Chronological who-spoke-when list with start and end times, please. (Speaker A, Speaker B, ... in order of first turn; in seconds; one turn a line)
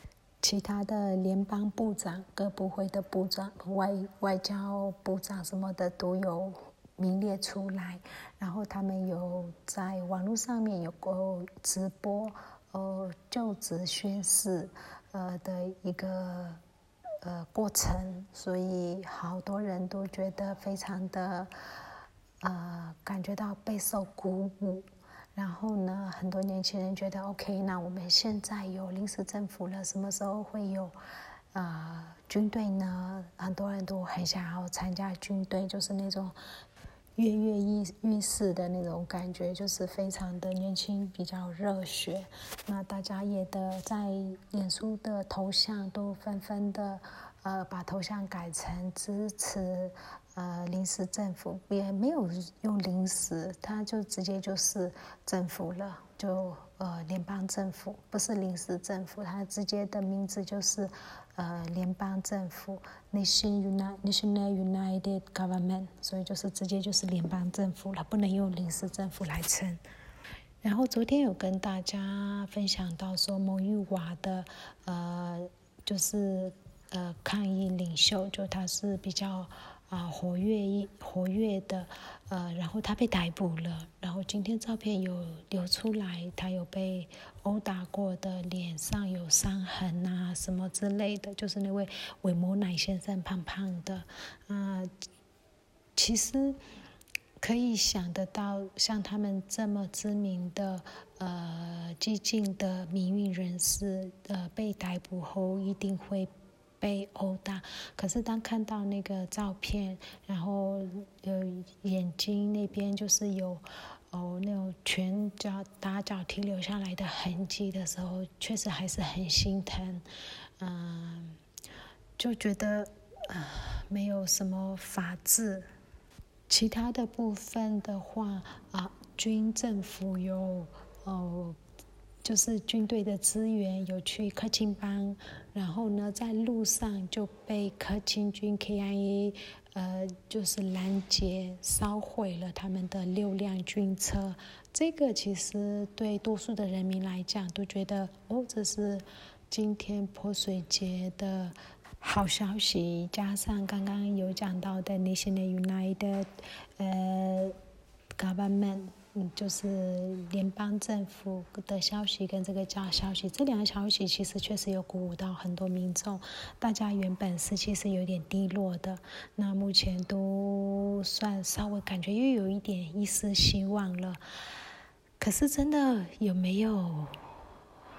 Speaker A: 0.4-16.6
Speaker A: 17.2-21.5
Speaker A: 22.4-31.0
Speaker A: 31.5-36.4
Speaker A: 37.2-69.8
Speaker A: 70.6-94.9
Speaker A: 96.0-96.6
Speaker A: 97.4-120.0
Speaker A: 120.6-121.4
Speaker A: 122.2-125.7
Speaker A: 126.5-131.6
Speaker A: 132.2-157.6
Speaker A: 158.2-174.2
Speaker A: 175.2-177.2